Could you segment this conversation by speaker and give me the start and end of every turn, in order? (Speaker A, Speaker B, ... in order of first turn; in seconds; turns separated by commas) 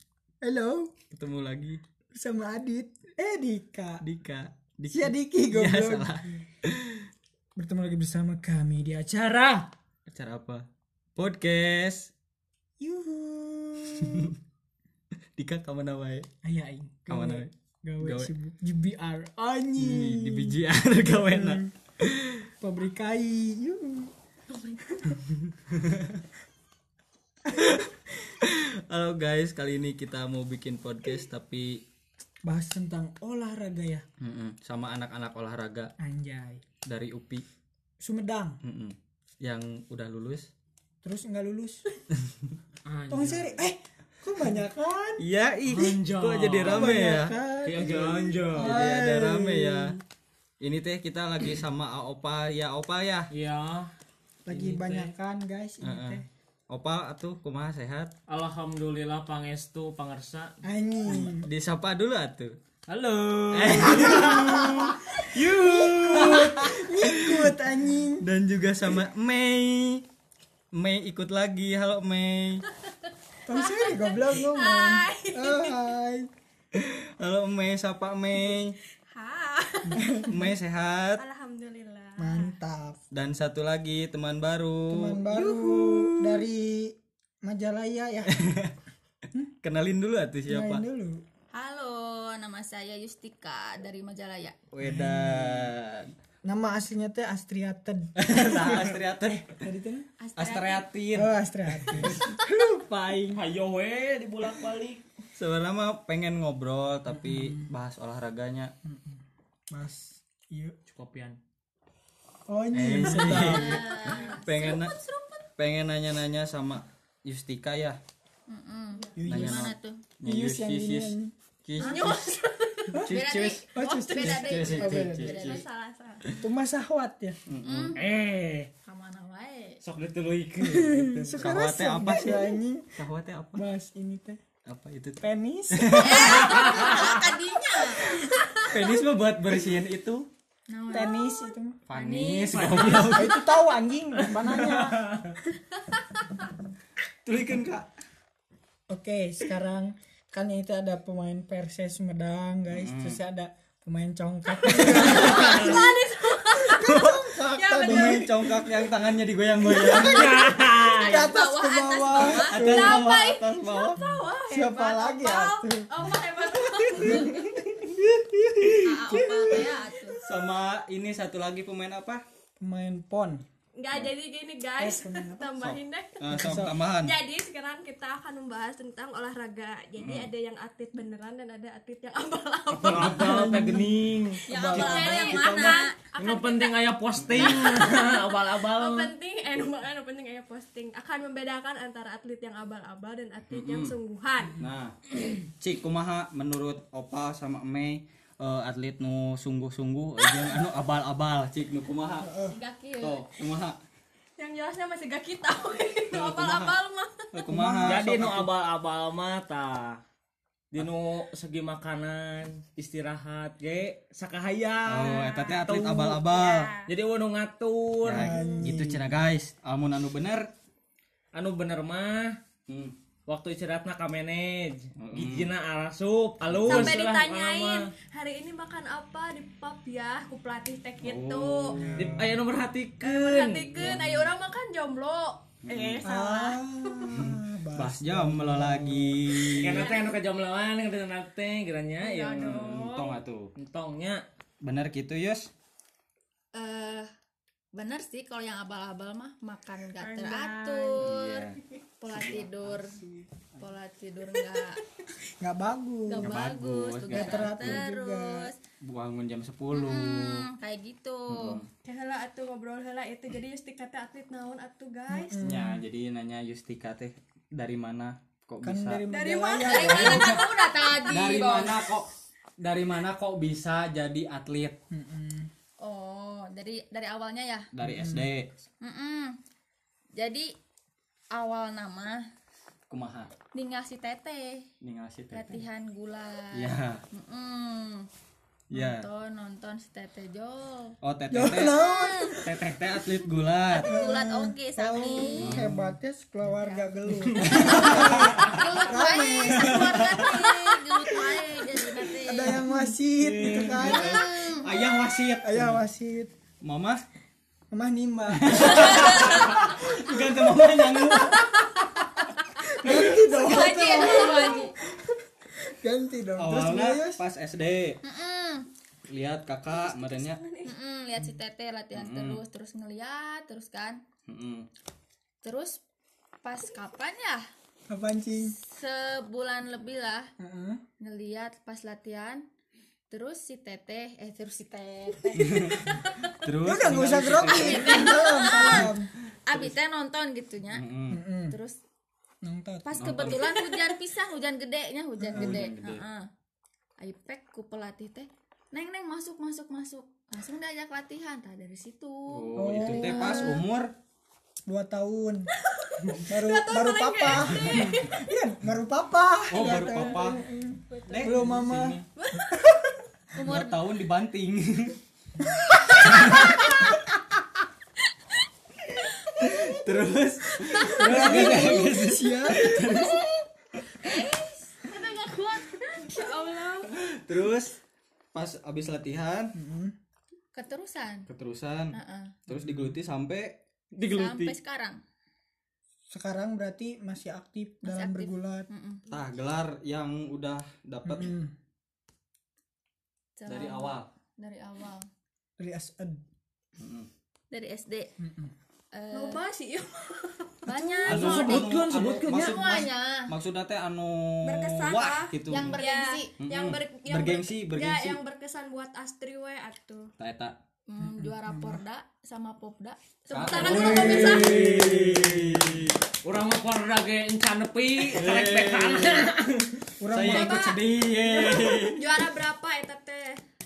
Speaker A: 0.4-0.9, Speaker B: 1.1-1.8, Speaker A: 2.1-4.0, Speaker B: 4.0-7.0, Speaker A: 4.9-6.1, Speaker A: 7.6-9.7, Speaker B: 10.1-12.1, Speaker A: 12.8-14.3, Speaker B: 15.4-16.3, Speaker A: 16.4-21.7, Speaker B: 17.1-18.3, Speaker B: 19.8-22.5, Speaker A: 22.6-24.1, Speaker B: 25.7-26.2, Speaker A: 27.5-27.8, Speaker B: 27.6-31.8, Speaker A: 32.5-34.0, Speaker B: 34.2-35.9, Speaker A: 36.0-36.6, Speaker B: 36.9-37.4, Speaker A: 38.0-38.6, Speaker B: 38.6-40.5, Speaker A: 41.0-41.9, Speaker C: 42.9-43.5, Speaker A: 43.1-45.2, Speaker B: 45.2-47.4, Speaker C: 45.7-47.0, Speaker A: 46.7-50.0, Speaker C: 47.6-48.8, Speaker B: 48.5-50.0, Speaker B: 50.6-53.3, Speaker C: 53.3-53.9, Speaker A: 54.5-56.2, Speaker C: 54.5-55.1, Speaker B: 55.8-58.1, Speaker C: 58.3-60.6, Speaker A: 60.6-61.5, Speaker B: 61.1-62.6, Speaker C: 62.9-64.5, Speaker B: 63.5-67.5, Speaker A: 63.7-68.3, Speaker C: 65.5-66.4, Speaker B: 68.2-70.0, Speaker B: 70.7-72.6, Speaker A: 73.5-76.3, Speaker D: 73.5-75.8, Speaker B: 76.7-78.8, Speaker D: 79.1-80.3, Speaker A: 79.9-80.4, Speaker B: 80.3-81.2, Speaker D: 81.2-82.6, Speaker A: 82.2-83.0, Speaker B: 83.1-86.4, Speaker A: 84.9-88.3, Speaker B: 88.3-88.7, Speaker B: 89.6-90.8, Speaker A: 90.5-91.2, Speaker E: 91.5-94.6, Speaker B: 94.7-96.1, Speaker A: 94.8-95.7, Speaker A: 96.5-99.0, Speaker B: 98.2-99.6, Speaker A: 99.6-100.1, Speaker E: 100.2-100.8, Speaker B: 100.4-102.2, Speaker A: 101.1-103.4, Speaker C: 103.3-105.0, Speaker B: 105.4-108.7, Speaker A: 107.2-107.7, Speaker A: 108.8-110.8, Speaker C: 110.9-111.4, Speaker A: 112.5-113.8, Speaker B: 112.7-115.0, Speaker C: 113.2-113.5, Speaker E: 113.4-114.5, Speaker D: 114.0-115.5, Speaker B: 115.6-118.0, Speaker E: 118.5-120.0, Speaker A: 119.2-121.3, Speaker B: 119.3-122.2, Speaker E: 121.8-122.1, Speaker D: 121.8-123.0, Speaker A: 122.9-123.2, Speaker B: 123.0-123.7, Speaker E: 123.1-125.6, Speaker A: 123.7-125.4, Speaker D: 123.8-126.3, Speaker B: 124.2-125.6, Speaker A: 126.4-127.4, Speaker B: 127.5-128.0, Speaker E: 127.6-128.0, Speaker C: 128.0-128.7, Speaker E: 128.9-129.8, Speaker C: 129.8-131.4, Speaker A: 130.6-133.0, Speaker B: 131.4-133.6, Speaker A: 133.6-134.4, Speaker B: 134.7-136.8, Speaker A: 135.2-136.2, Speaker E: 135.9-138.1, Speaker C: 136.4-137.2, Speaker A: 137.9-138.6, Speaker B: 138.7-140.3, Speaker E: 140.7-143.1, Speaker A: 140.9-141.8, Speaker B: 141.9-143.4, Speaker C: 142.5-143.3, Speaker A: 143.1-145.1, Speaker C: 144.2-145.4, Speaker B: 147.2-147.9, Speaker A: 148.9-156.0, Speaker B: 152.7-153.2, Speaker D: 154.7-158.3, Speaker B: 154.9-155.8, Speaker A: 156.6-158.7, Speaker B: 156.8-157.2, Speaker B: 157.8-160.4, Speaker A: 159.6-163.1, Speaker C: 159.9-161.3, Speaker E: 160.9-162.6, Speaker D: 162.1-167.6, Speaker B: 162.4-164.0, Speaker A: 164.5-166.0, Speaker A: 166.9-169.8, Speaker E: 168.8-170.2, Speaker B: 170.2-172.2, Speaker A: 172.6-173.4, Speaker D: 173.8-183.4, Speaker A: 174.8-175.5, Speaker B: 175.6-177.1, Speaker A: 176.3-176.8, Speaker B: 180.0-180.3, Speaker C: 182.7-189.1, Speaker A: 183.0-185.3, Speaker E: 184.5-185.9, Speaker D: 184.6-186.8, Speaker B: 187.2-187.6, Speaker D: 187.3-194.6, Speaker B: 193.5-193.9, Speaker B: 194.6-202.3, Speaker A: 202.2-202.6, Speaker E: 202.5-203.2, Speaker B: 203.0-203.8, Speaker D: 204.4-207.4, Speaker B: 206.1-206.7, Speaker B: 207.3-208.5, Speaker A: 207.5-208.4, Speaker C: 207.8-210.0, Speaker C: 210.7-216.2, Speaker B: 214.9-216.7, Speaker D: 215.0-216.9, Speaker C: 216.9-218.5, Speaker B: 218.0-220.5, Speaker A: 218.1-219.1, Speaker C: 221.3-222.4, Speaker B: 222.7-222.9, Speaker C: 223.3-227.9, Speaker B: 225.0-225.5, Speaker B: 226.5-227.0, Speaker D: 226.7-231.8, Speaker B: 231.0-232.3, Speaker A: 231.8-232.3, Speaker C: 231.9-233.8, Speaker D: 233.0-237.1, Speaker B: 233.8-234.3, Speaker B: 235.6-236.0, Speaker C: 235.7-236.0, Speaker A: 236.0-239.5, Speaker B: 237.1-239.9, Speaker C: 239.6-242.8, Speaker D: 239.7-240.2, Speaker D: 242.0-243.2, Speaker B: 242.3-243.5, Speaker C: 243.6-244.2, Speaker B: 244.6-245.5, Speaker E: 246.5-247.1, Speaker E: 247.7-251.5, Speaker D: 250.0-251.1, Speaker B: 251.0-252.4, Speaker E: 252.0-253.0, Speaker E: 253.6-254.8, Speaker A: 255.4-256.3, Speaker E: 256.1-258.6, Speaker B: 256.2-257.8, Speaker A: 257.1-258.5, Speaker B: 258.8-260.5, Speaker E: 259.7-261.6, Speaker B: 261.3-261.7, Speaker D: 261.8-265.4, Speaker A: 265.1-265.8, Speaker B: 265.4-269.0, Speaker A: 268.6-270.4, Speaker D: 269.1-271.7, Speaker E: 269.7-271.8, Speaker B: 271.1-274.8, Speaker A: 274.9-275.5, Speaker E: 275.8-277.7, Speaker B: 277.7-278.5, Speaker A: 277.8-278.3, Speaker E: 278.8-279.4, Speaker E: 280.2-280.5, Speaker E: 281.3-282.2, Speaker B: 282.9-283.3, Speaker E: 283.5-284.7, Speaker B: 284.8-285.7, Speaker E: 285.3-288.1, Speaker B: 286.5-287.0, Speaker B: 288.7-289.1, Speaker E: 288.7-291.0, Speaker B: 291.0-291.8, Speaker A: 291.3-292.8, Speaker E: 291.6-292.4, Speaker B: 292.4-294.0, Speaker E: 293.7-295.6, Speaker A: 293.8-300.3, Speaker B: 295.4-296.0, Speaker E: 296.5-296.9, Speaker E: 297.4-302.7, Speaker B: 297.4-298.7, Speaker B: 299.6-300.3, Speaker A: 302.1-304.3, Speaker C: 303.2-303.7, Speaker B: 303.4-305.8, Speaker E: 303.8-304.7, Speaker A: 305.4-306.3, Speaker B: 306.6-307.0, Speaker A: 307.7-309.8, Speaker B: 308.4-311.7, Speaker D: 311.3-312.2, Speaker A: 312.8-317.2, Speaker B: 312.8-313.1, Speaker E: 313.3-314.8, Speaker D: 313.4-314.7, Speaker B: 316.4-318.0, Speaker E: 318.0-318.7, Speaker B: 319.1-320.4, Speaker D: 319.7-320.7, Speaker E: 320.6-324.0, Speaker B: 321.9-322.4, Speaker B: 324.3-324.7, Speaker E: 325.4-325.8, Speaker E: 326.4-327.5, Speaker A: 327.9-328.6, Speaker E: 328.6-330.3, Speaker A: 330.4-330.8, Speaker E: 331.0-332.4, Speaker E: 333.1-335.9, Speaker B: 335.4-335.9, Speaker B: 336.4-338.9, Speaker A: 336.6-339.1, Speaker E: 337.4-338.9, Speaker E: 339.5-340.9, Speaker B: 340.7-341.2, Speaker A: 341.1-341.6, Speaker E: 341.5-341.8, Speaker A: 342.4-343.3, Speaker E: 342.9-346.3, Speaker B: 342.9-343.5, Speaker A: 345.2-345.6, Speaker B: 345.3-346.0, Speaker E: 347.0-353.6, Speaker B: 352.3-353.9, Speaker A: 352.6-353.6, Speaker D: 353.1-353.6, Speaker A: 354.7-355.5, Speaker D: 355.7-358.2, Speaker A: 356.2-363.0, Speaker B: 357.6-358.0, Speaker B: 359.5-360.4, Speaker D: 359.6-361.4, Speaker B: 361.1-362.1, Speaker D: 362.2-362.6, Speaker E: 363.4-363.8, Speaker B: 363.4-365.0, Speaker B: 366.0-366.5, Speaker B: 369.4-373.2, Speaker A: 370.8-372.8, Speaker E: 372.7-373.3, Speaker E: 374.0-374.7, Speaker D: 374.1-376.9, Speaker B: 376.9-377.8, Speaker B: 378.3-379.6, Speaker A: 379.6-379.9, Speaker E: 380.5-381.3, Speaker B: 381.3-383.6, Speaker E: 381.9-382.4, Speaker A: 382.5-383.0, Speaker C: 383.9-384.6, Speaker E: 384.1-385.0, Speaker A: 386.1-388.7, Speaker E: 387.8-389.0, Speaker B: 389.1-391.3, Speaker A: 391.1-391.5, Speaker E: 393.4-395.1, Speaker B: 393.5-394.1, Speaker A: 395.6-396.2, Speaker B: 396.8-397.1, Speaker E: 397.5-398.1, Speaker A: 398.2-398.5, Speaker E: 398.9-399.4, Speaker D: 399.1-401.3, Speaker E: 400.7-403.3, Speaker B: 401.1-405.8, Speaker C: 401.1-402.7, Speaker D: 404.4-410.1, Speaker E: 405.5-406.3, Speaker B: 406.4-408.2, Speaker B: 410.2-410.6, Speaker E: 410.9-414.2, Speaker A: 411.0-411.8, Speaker B: 413.3-416.0, Speaker D: 413.3-414.7, Speaker C: 413.8-414.9, Speaker A: 413.8-415.8, Speaker C: 416.2-419.8, Speaker B: 418.1-419.3, Speaker A: 420.0-420.8, Speaker B: 420.1-422.0, Speaker D: 420.2-423.4